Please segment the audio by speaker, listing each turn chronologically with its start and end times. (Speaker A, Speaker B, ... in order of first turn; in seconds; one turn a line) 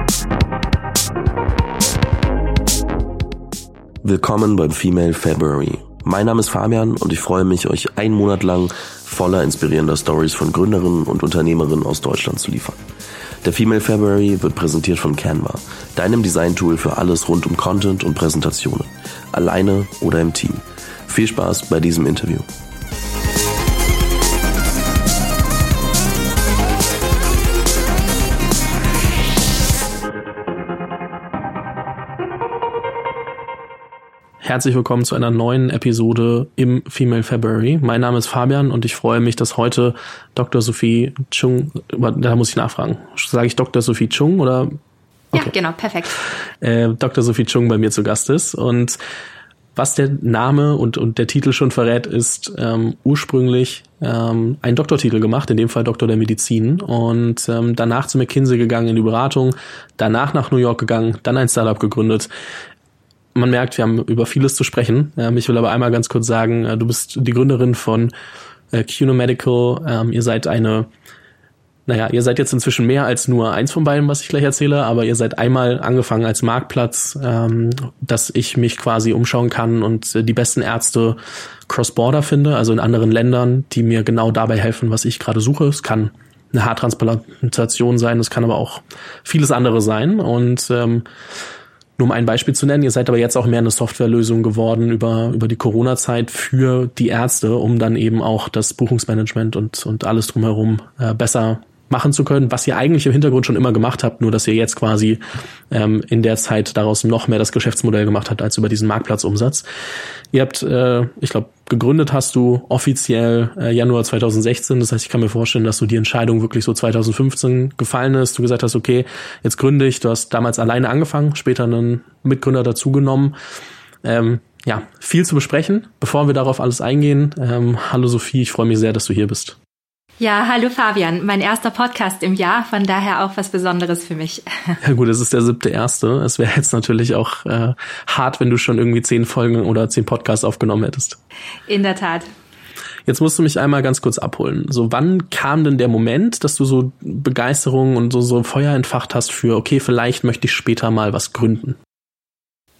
Speaker A: 4.0-12.8
Speaker A: 13.4-22.4
Speaker B: 34.4-44.8
Speaker C: 45.3-46.1
Speaker B: 46.6-49.0
Speaker B: 49.7-62.3
Speaker B: 63.3-68.1
Speaker B: 68.7-70.9
Speaker B: 71.9-91.0
Speaker B: 92.0-105.2
Speaker B: 105.7-109.6
Speaker B: 110.3-123.3
Speaker B: 124.0-129.6
Speaker C: 130.2-134.8
Speaker B: 134.8-141.2
Speaker C: 141.7-142.3
Speaker B: 143.1-151.8